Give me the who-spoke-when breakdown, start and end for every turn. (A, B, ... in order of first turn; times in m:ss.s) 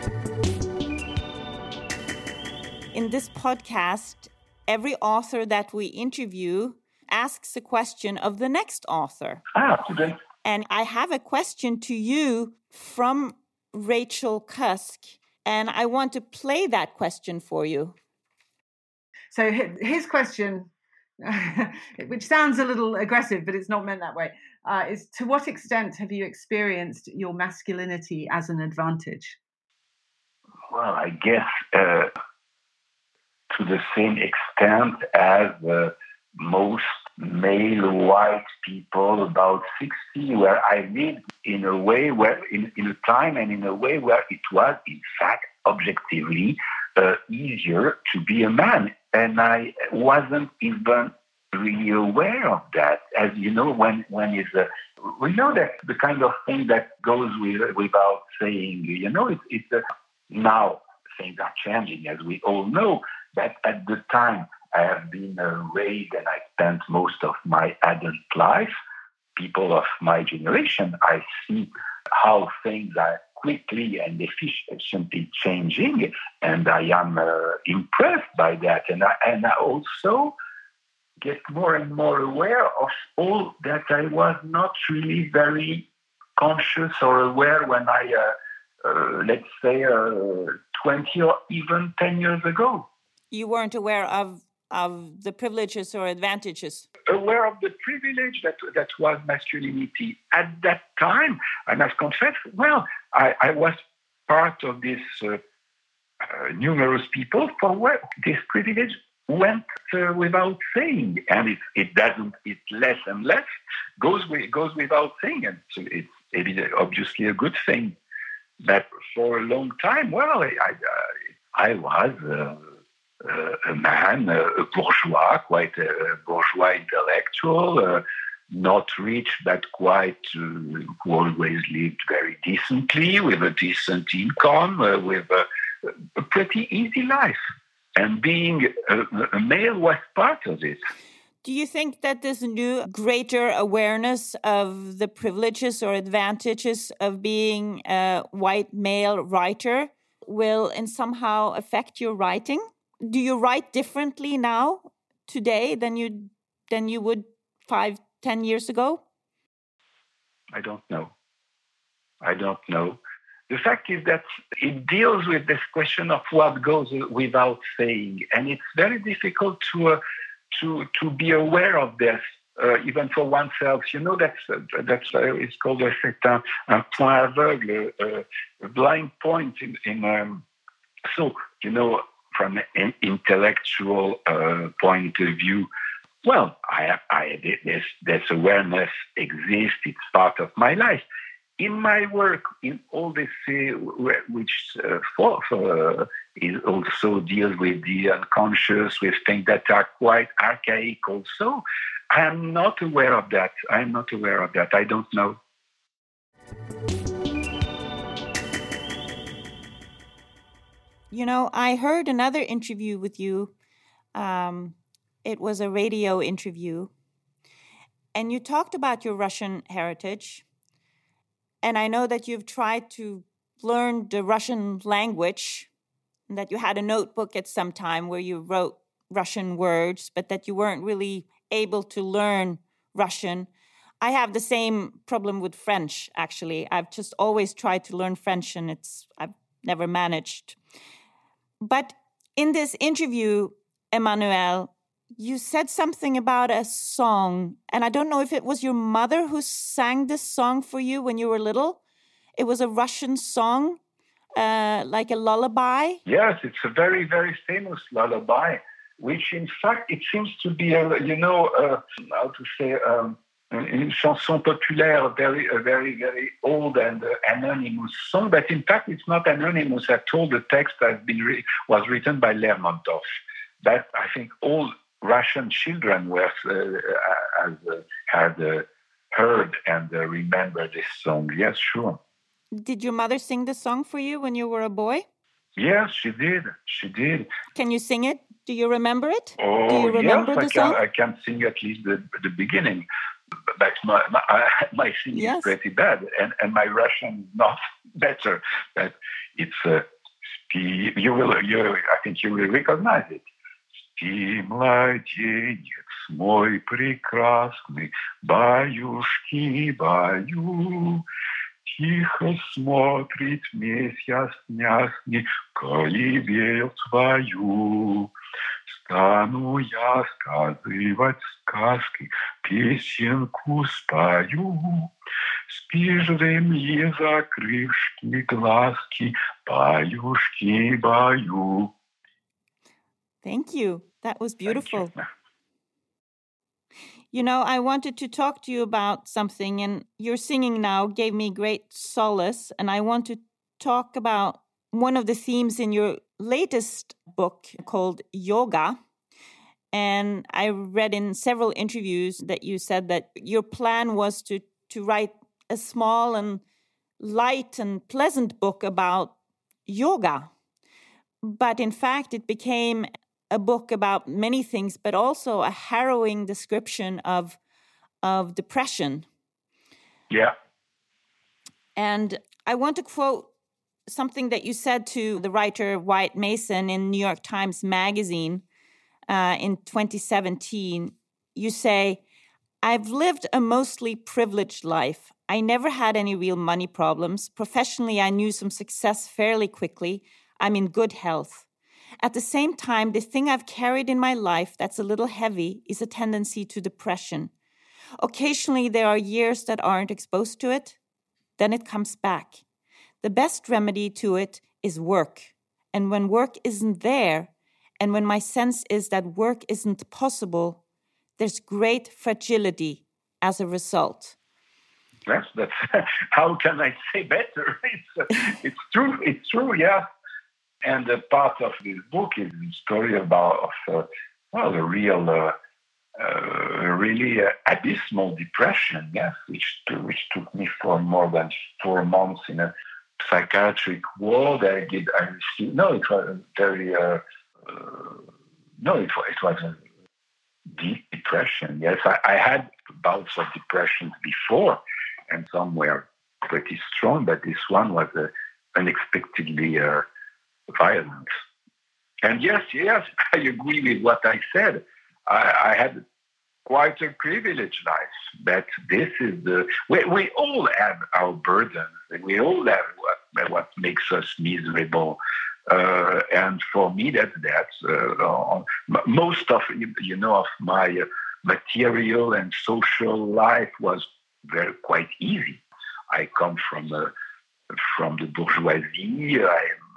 0:02.9-0:09.4 A
0:09.6-0:10.2 B
0:10.4-0:17.9 A
0:19.3-0:20.7 C
0:21.2-0:29.4 C
0:30.7-0:32.1 B
0:33.5-1:08.7 B
1:09.4-1:20.3 B
1:21.2-1:25.9 B
1:26.4-1:28.3 B
1:28.8-1:32.9 B
1:33.3-1:36.9 A
1:37.1-1:45.4 B
1:46.2-1:53.4 B
1:54.0-1:58.0 B
1:58.6-2:02.6 B
2:03.2-2:17.4 B
2:18.0-2:20.8 B
2:21.4-2:39.0 A
2:40.5-2:41.1 B
2:42.2-2:50.0 B
2:50.5-3:00.4 B
3:01.1-3:05.7 B
3:06.2-3:11.0 B
3:11.6-3:25.4 B
3:31.1-3:33.5 A
3:34.1-3:36.9 A
3:38.1-3:40.4 A
3:41.6-3:45.7 A
3:46.3-3:53.5 A
3:54.0-4:00.6 A
4:01.6-4:11.8 A
4:12.4-4:13.8 A
4:14.4-4:16.0 A
4:16.1-4:33.0 B
4:33.6-4:42.0 B
4:42.5-4:45.0 A
4:45.6-4:47.3 B
4:47.6-4:50.8 A
4:49.4-4:52.9 B
4:53.6-4:59.8 B
4:55.1-4:55.6 A
5:00.5-5:03.2 B
5:04.0-5:11.0 B
5:11.7-5:18.1 B
5:18.7-5:24.9 B
5:25.5-5:31.7 B
5:33.2-5:34.9 A
5:37.1-5:48.8 A
5:49.7-5:56.4 A
5:57.0-5:59.1 A
5:59.7-6:00.3 A
6:01.2-6:07.4 A
6:08.0-6:09.0 A
6:11.8-6:13.3 A
6:13.9-6:18.4 A
6:19.1-6:22.0 A
6:22.6-6:31.4 A
6:32.0-6:37.3 A
6:38.0-6:40.8 A
6:41.4-6:42.4 A
6:43.0-6:50.6 A
6:51.2-6:54.1 A
6:55.0-6:59.8 B
7:00.6-7:05.3 B
7:06.0-7:18.0 B
7:18.6-7:19.6 B
7:20.5-7:29.9 B
7:30.5-7:31.1 B
7:32.0-7:35.8 B
7:36.4-7:56.9 B
7:57.5-7:59.6 B